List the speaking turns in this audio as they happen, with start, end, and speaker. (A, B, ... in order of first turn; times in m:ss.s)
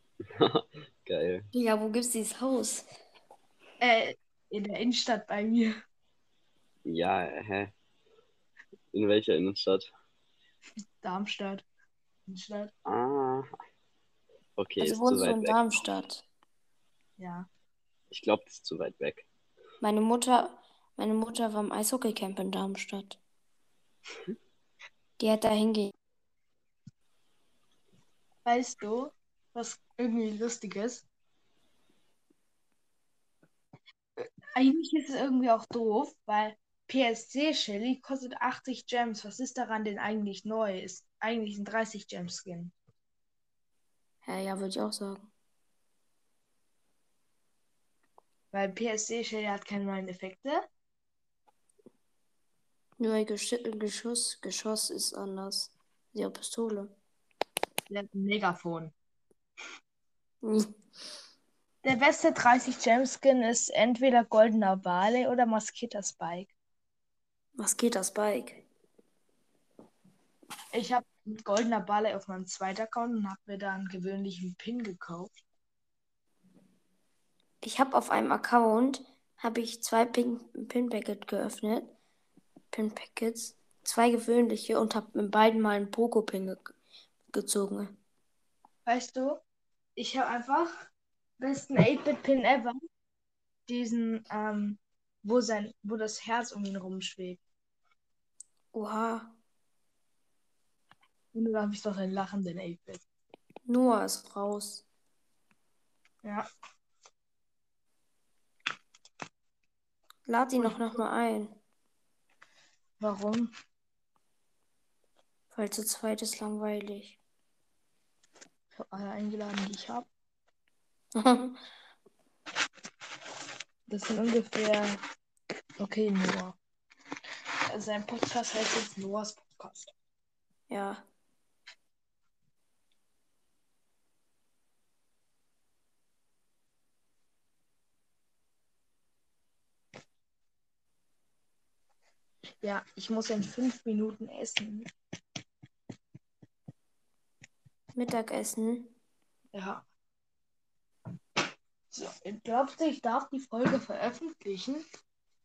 0:00.4-0:01.5 A
0:01.5-0:02.9 B
0:03.8-0:05.7 C
0:06.8-0:07.7 A
0:08.9-0:09.9 A
0:11.0-0:11.6 C
0:12.3-0:12.7 C
0:12.8-0:13.5 A
0:14.6-0:15.8 A
0:14.8-0:16.2 B
0:17.2-0:17.5 C
0:18.1-0:19.2 A
0:19.8-0:23.2 B
0:25.2-0:25.9 B
0:28.4-0:31.0 C
0:34.2-0:42.7 C
0:44.2-0:45.3 B
0:48.5-0:50.6 C
0:53.0-0:56.9 B
0:57.9-0:58.9 C
1:00.4-1:00.7 B
1:01.8-1:06.5 C
1:07.6-1:08.6 B
1:10.7-1:15.3 C
1:17.6-1:21.9 B
1:22.7-1:26.7 B
1:27.3-1:28.0 B
1:28.8-1:29.4 C
1:30.0-1:30.7 C
1:31.4-1:32.8 C
1:33.7-1:37.4 C
1:38.7-1:39.4 B
1:41.3-1:43.0 C
1:43.6-1:44.8 B
1:50.3-1:51.5 B
1:50.6-1:51.0 C
1:53.0-1:53.5 C
1:55.5-1:57.2 B
1:58.8-2:00.1 C
2:01.1-2:01.6 B
2:03.9-2:05.0 C
2:05.8-2:06.6 C
2:07.7-2:09.9 C
2:10.7-2:11.0 B
2:22.6-2:24.9 C
2:27.9-2:28.9 B
2:29.5-2:29.8 C
2:31.9-2:34.8 C